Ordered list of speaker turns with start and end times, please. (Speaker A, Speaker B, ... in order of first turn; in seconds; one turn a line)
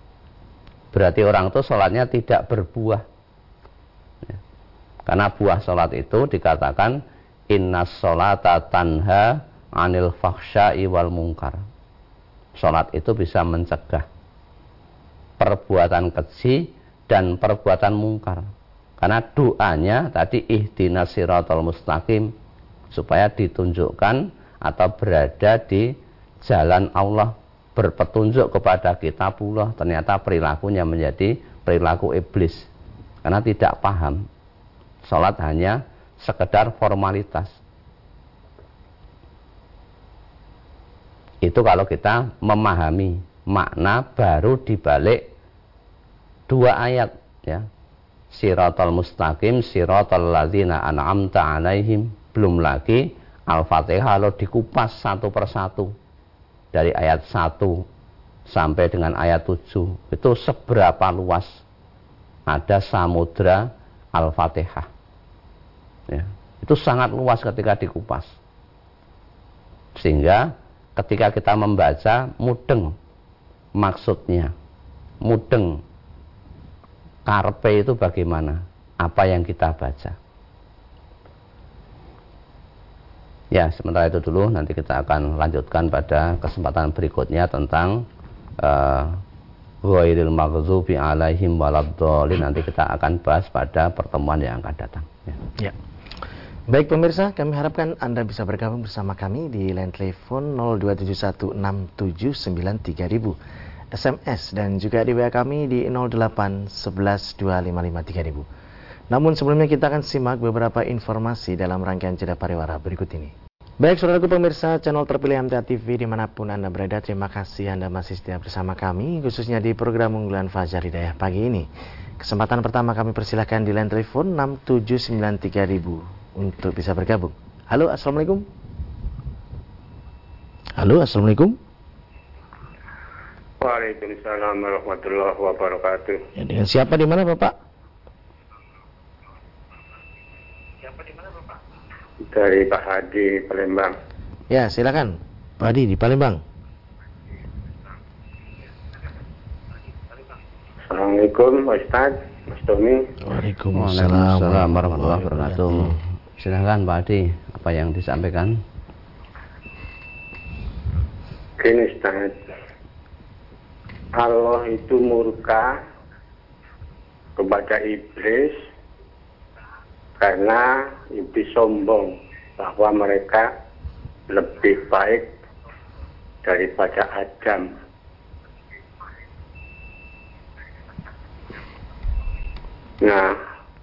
Speaker A: 0.9-3.0
Speaker A: 5.1-11.6
Speaker A: 12.6-14.1
Speaker A: 15.4-18.4
Speaker A: 19.0-22.3
Speaker A: 22.9-25.9
Speaker A: 26.4-32.7
Speaker A: 33.2-34.2
Speaker A: 35.0-37.5
Speaker A: 41.4-45.2
Speaker A: 46.5-47.6
Speaker A: 48.3-55.9
Speaker A: 56.7-57.8
Speaker A: 58.5-61.6
Speaker A: 62.5-64.9
Speaker A: 66.1-68.3
Speaker A: 70.0-72.9
Speaker A: 73.8-74.5
Speaker A: 75.2-75.8
Speaker A: 77.2-80.2
Speaker A: 83.5-88.0
Speaker A: 88.6-89.2
Speaker A: 89.8-95.4
Speaker B: 96.7-103.3
Speaker B: 103.9-108.5
Speaker B: 109.1-121.7
Speaker B: 122.2-128.5
Speaker B: 130.8-131.6
Speaker C: 133.6-136.2
Speaker B: 136.3-137.5
Speaker C: 142.3-143.9
Speaker B: 144.5-146.4
Speaker C: 150.9-153.1
Speaker B: 153.2-155.9
Speaker A: 153.7-158.6
Speaker C: 161.6-162.4
Speaker C: 164.1-165.7
Speaker C: 167.4-168.6
Speaker C: 170.2-173.5
Speaker C: 174.3-175.3
Speaker C: 176.4-177.7
Speaker C: 183.0-183.3